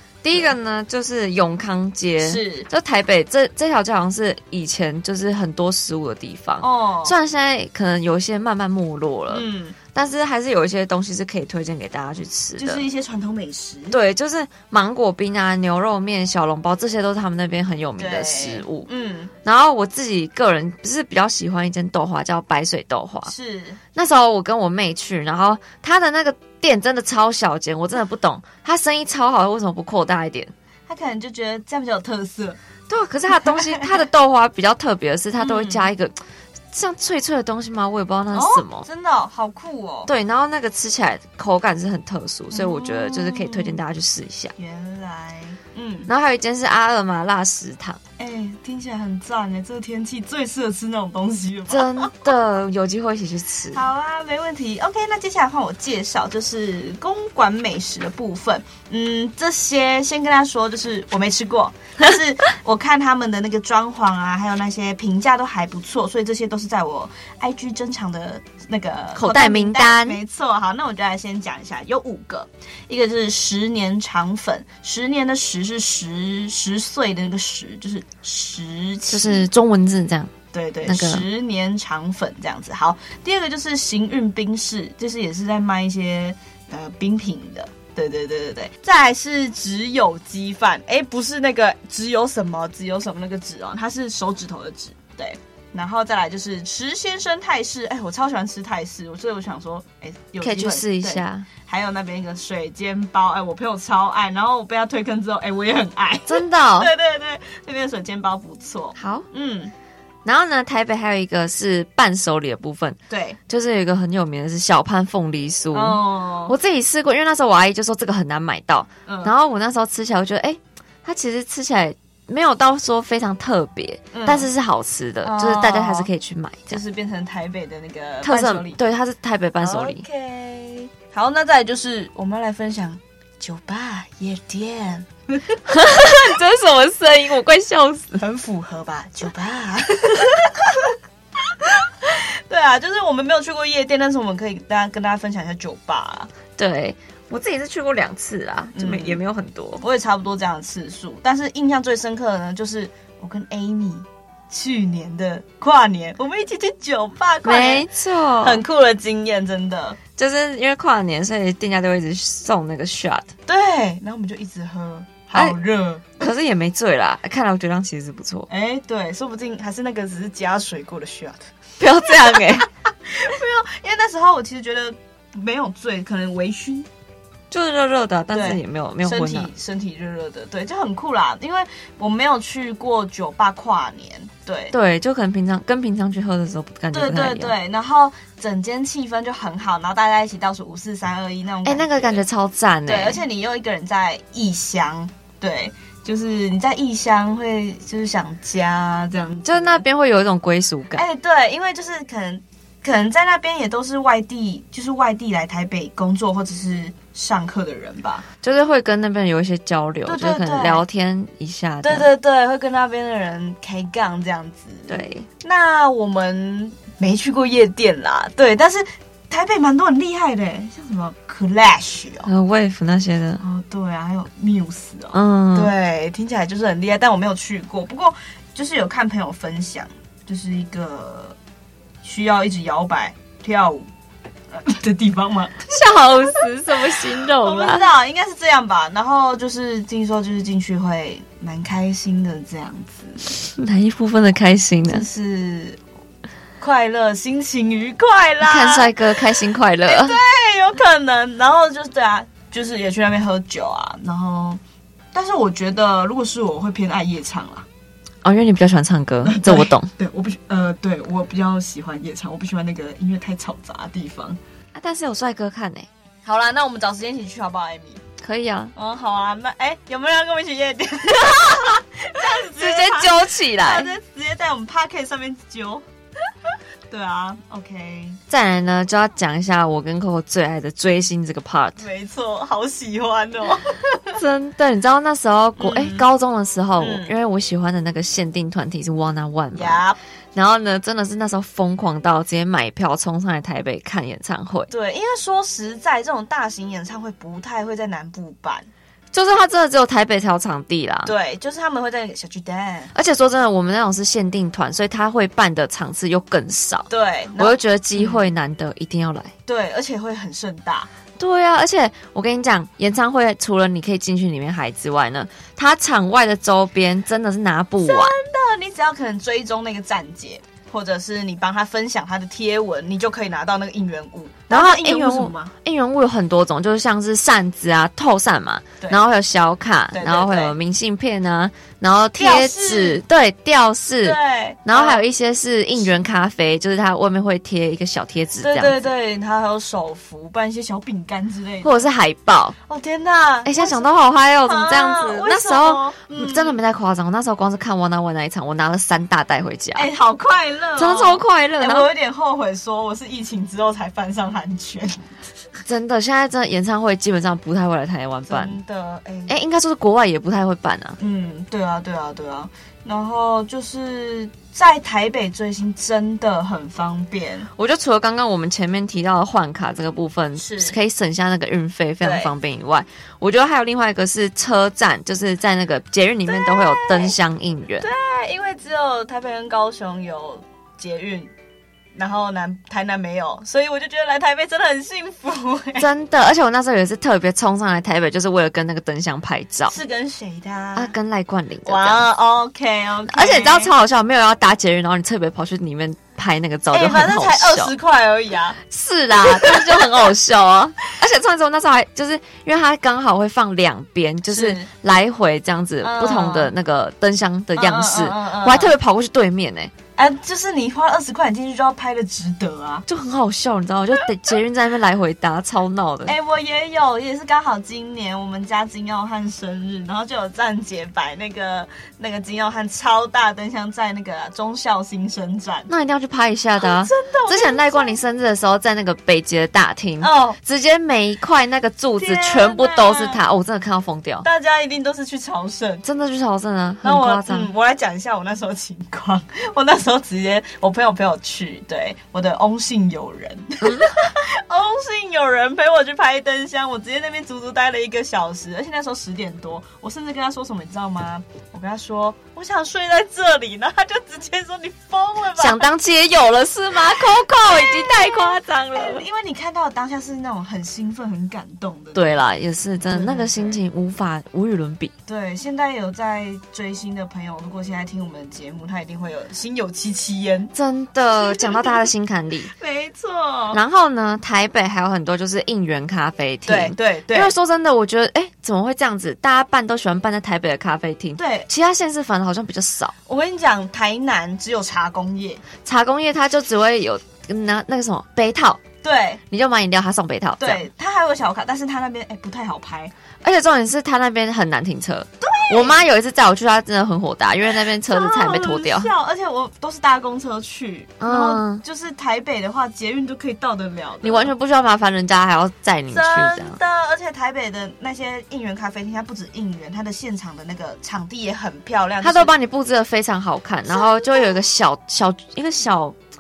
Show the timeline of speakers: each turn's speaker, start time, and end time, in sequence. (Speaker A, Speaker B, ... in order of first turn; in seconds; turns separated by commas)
Speaker A: 0.2-12.8, Speaker B: 2.2-2.7, Speaker B: 6.6-7.2, Speaker B: 9.3-9.8, Speaker B: 12.6-14.0, Speaker A: 13.9-18.9, Speaker B: 18.0-19.3, Speaker A: 19.4-23.3, Speaker B: 23.3-23.8, Speaker A: 23.9-30.5, Speaker B: 30.9-32.6, Speaker A: 32.9-36.1, Speaker B: 33.4-33.9, Speaker B: 35.4-35.9, Speaker A: 36.7-38.9, Speaker B: 38.3-40.1, Speaker A: 40.1-44.5, Speaker B: 42.5-43.8, Speaker B: 44.6-46.1, Speaker A: 46.1-48.0, Speaker B: 48.2-52.3, Speaker A: 51.7-53.8, Speaker B: 53.7-79.5, Speaker A: 69.2-70.2, Speaker A: 79.1-80.3, Speaker B: 80.5-109.7, Speaker A: 80.8-81.2, Speaker A: 100.4-101.5, Speaker A: 106.3-106.9, Speaker A: 109.0-109.3, Speaker A: 110.2-126.8, Speaker B: 113.1-113.4, Speaker B: 115.7-116.5, Speaker B: 119.1-119.3, Speaker B: 124.1-124.5, Speaker B: 125.2-126.1, Speaker B: 126.7-128.8, Speaker A: 128.2-130.0, Speaker B: 129.6-135.6, Speaker A: 135.7-138.2, Speaker B: 138.2-146.3, Speaker A: 146.6-149.8, Speaker B: 148.8-149.2, Speaker B: 149.8-157.9, Speaker A: 157.4-158.6, Speaker B: 158.4-160.0, Speaker A: 160.2-163.3, Speaker B: 163.5-166.2, Speaker A: 166.2-168.5, Speaker B: 168.5-171.5, Speaker A: 171.8-172.7, Speaker B: 172.1-176.9, Speaker A: 177.5-179.5, Speaker B: 178.3-184.7, Speaker A: 184.7-187.6, Speaker B: 186.9-192.2, Speaker A: 191.7-193.2, Speaker B: 192.9-199.8, Speaker A: 199.4-201.1, Speaker B: 200.9-208.2, Speaker A: 208.4-212.1, Speaker B: 210.1-210.8, Speaker B: 211.8-222.3, Speaker A: 214.9-215.3, Speaker A: 222.2-223.4, Speaker B: 223.4-231.4, Speaker A: 225.1-225.7, Speaker B: 232.0-233.9, Speaker B: 234.5-235.7, Speaker A: 235.7-237.9, Speaker B: 237.4-243.2, Speaker A: 243.4-245.1, Speaker B: 244.9-245.8, Speaker B: 246.6-248.9, Speaker A: 248.4-250.2, Speaker B: 249.8-254.6, Speaker B: 255.1-257.7, Speaker A: 258.2-259.9, Speaker B: 259.2-264.4, Speaker A: 264.7-265.9, Speaker B: 266.2-268.0, Speaker A: 268.2-268.7, Speaker B: 268.8-275.8, Speaker A: 272.3-273.9, Speaker B: 276.4-278.2, Speaker A: 278.3-281.9, Speaker B: 281.8-284.2, Speaker A: 284.1-289.8, Speaker B: 285.6-286.1, Speaker B: 286.8-287.1, Speaker B: 289.6-290.0, Speaker A: 290.4-294.7, Speaker B: 294.7-298.7, Speaker A: 299.1-301.1, Speaker B: 301.1-302.9, Speaker A: 302.9-309.3, Speaker B: 306.9-308.3, Speaker B: 309.5-310.9, Speaker A: 311.2-318.2, Speaker B: 317.8-325.5, Speaker A: 324.5-338.8, Speaker B: 329.9-330.6, Speaker B: 332.2-333.0, Speaker B: 334.0-335.0, Speaker B: 338.4-341.9, Speaker A: 341.6-342.6, Speaker B: 342.7-343.9, Speaker A: 343.4-349.9, Speaker B: 344.4-346.6, Speaker B: 349.8-355.1, Speaker A: 350.8-351.9, Speaker A: 355.6-358.6, Speaker B: 358.3-359.4, Speaker A: 359.3-361.0, Speaker B: 361.0-367.5, Speaker A: 367.6-377.9, Speaker B: 370.4-370.8, Speaker B: 372.0-372.3, Speaker B: 376.3-377.2, Speaker B: 377.8-381.3, Speaker B: 381.9-385.9, Speaker A: 385.8-389.8, Speaker B: 389.7-390.9, Speaker A: 390.8-392.1, Speaker B: 391.7-393.7, Speaker A: 393.1-397.7, Speaker B: 396.7-398.6, Speaker A: 398.7-409.7, Speaker B: 399.1-400.1, Speaker B: 404.3-404.7, Speaker B: 405.8-406.5, Speaker B: 407.6-408.8, Speaker B: 410.0-412.9, Speaker A: 412.9-416.1, Speaker B: 416.1-425.7, Speaker A: 425.7-434.3, Speaker B: 426.6-428.0, Speaker B: 430.0-430.4, Speaker B: 432.0-433.2, Speaker B: 434.2-435.9, Speaker A: 435.8-437.5, Speaker B: 436.8-455.7, Speaker A: 443.6-444.0, Speaker A: 455.3-459.0, Speaker B: 456.8-462.3, Speaker A: 461.9-464.9, Speaker B: 462.9-463.6, Speaker B: 465.1-470.5, Speaker A: 470.5-472.5, Speaker B: 471.1-471.9, Speaker B: 472.5-473.6, Speaker A: 473.5-482.9, Speaker B: 476.5-477.3, Speaker B: 481.2-481.5, Speaker B: 483.1-485.4, Speaker A: 485.6-488.6, Speaker B: 488.8-489.2, Speaker A: 489.3-490.6, Speaker B: 490.4-492.9, Speaker A: 493.2-498.9, Speaker B: 495.2-495.8, Speaker B: 497.5-504.3, Speaker A: 501.0-501.6, Speaker A: 504.0-506.6, Speaker B: 505.9-512.3, Speaker A: 512.0-516.0, Speaker B: 513.7-514.4